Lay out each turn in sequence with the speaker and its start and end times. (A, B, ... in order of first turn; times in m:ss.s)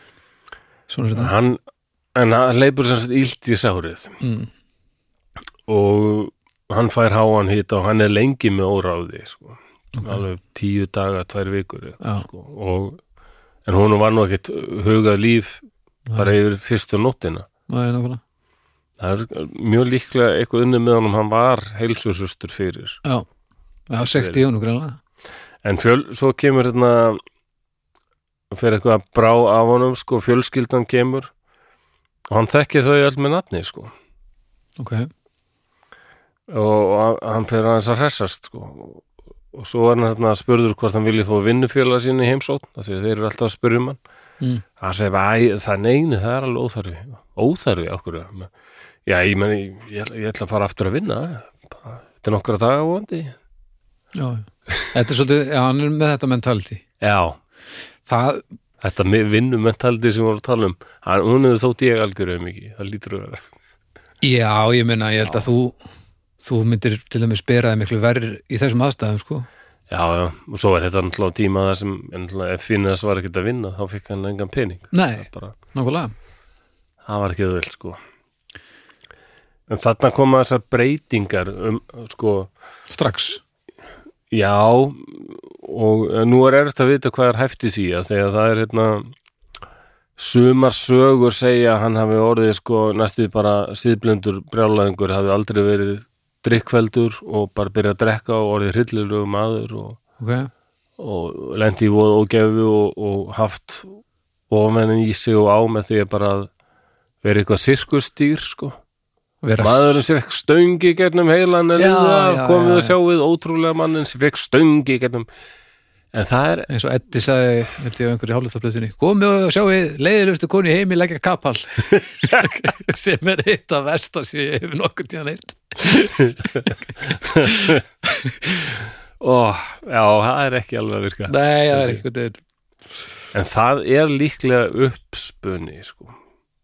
0:00.9-0:01.3 A
0:01.1-0:01.6 B
0:02.1-0:04.2 B
0:04.2-0:04.5 A
0:05.7-0:13.0 B
0:13.6-0:15.6 B
0:16.1-0:17.5 B
0:17.7-0:18.2 A
0:19.0-0:23.0 B
0:23.9-0:25.0 A
0:25.6-0:27.2 B
0:28.5-0:31.3 B
0:32.3-0:33.9 B
0:34.8-0:35.1 A
0:36.5-0:44.0 B
0:44.8-0:48.5 B
0:49.0-0:53.4 B
0:54.2-0:56.8 A
0:57.0-0:57.4 B
0:58.0-0:58.4 A
0:58.8-1:03.5 B
1:04.2-1:05.8 A
1:06.4-1:09.5 A
1:09.9-1:15.6 B
1:14.9-1:16.1 A
1:17.0-1:18.0 B
1:19.7-1:22.5 B
1:22.9-1:23.4 A
1:24.3-1:29.1 B
1:30.2-1:40.0 B
1:40.2-1:40.5 A
1:41.0-1:44.0 B
1:44.5-1:46.5 B
1:47.2-1:48.8 B
1:49.4-1:50.0 A
1:49.6-1:55.3 B
1:51.8-1:52.9 A
1:56.1-1:56.7 B
1:56.7-2:08.8 A
2:07.1-2:07.8 B
2:09.2-2:12.0 B
2:11.3-2:12.4 A
2:13.3-2:16.1 B